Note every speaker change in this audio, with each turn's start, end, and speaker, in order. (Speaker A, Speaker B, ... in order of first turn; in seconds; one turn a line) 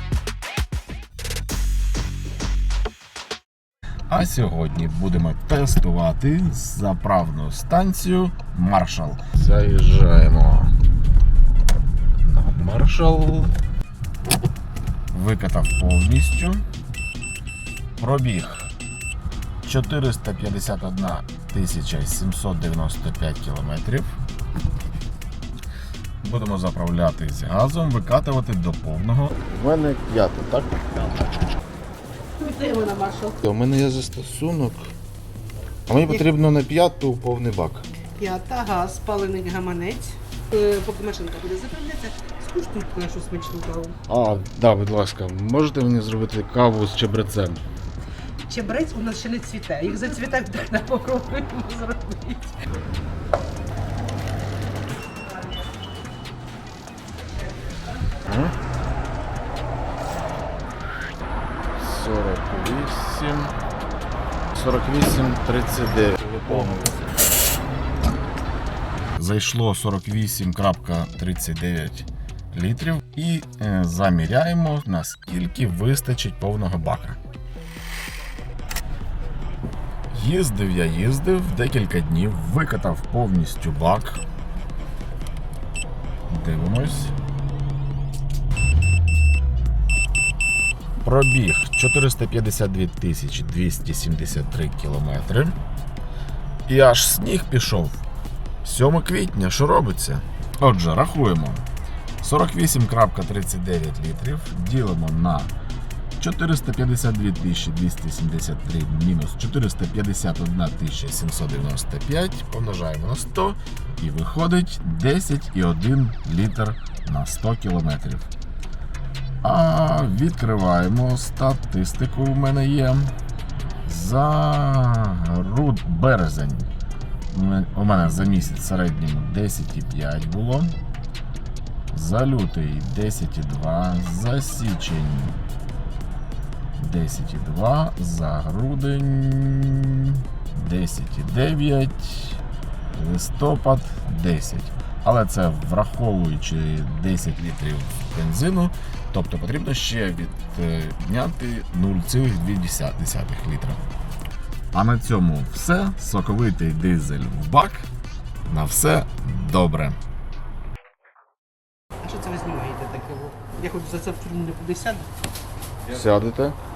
Speaker A: 4.1-10.7
Speaker A: 12.2-13.5
Speaker A: 15.1-16.6
Speaker A: 18.0-18.7
Speaker A: 19.6-24.1
Speaker A: 26.2-31.3
Speaker B: 32.4-33.4
Speaker A: 33.4-34.9
Speaker A: 35.9-37.8
Speaker B: 36.0-36.3
Speaker B: 38.1-44.0
Speaker A: 44.1-47.6
Speaker B: 48.5-52.6
Speaker A: 58.2-58.5
Speaker A: 61.7-63.5
Speaker A: 64.5-67.1
Speaker A: 69.2-77.2
Speaker A: 80.1-84.2
Speaker A: 86.3-87.1
Speaker A: 91.0-95.5
Speaker A: 96.7-98.0
Speaker A: 98.6-101.6
Speaker A: 102.2-105.5
Speaker A: 106.2-118.3
Speaker A: 119.4-123.1
Speaker A: 123.8-126.7
Speaker A: 127.3-130.7
Speaker A: 131.9-135.4
Speaker A: 136.8-142.4
Speaker A: 142.9-153.8
Speaker A: 154.7-157.9
Speaker A: 158.5-160.0
Speaker B: 162.0-165.1
Speaker A: 165.9-166.6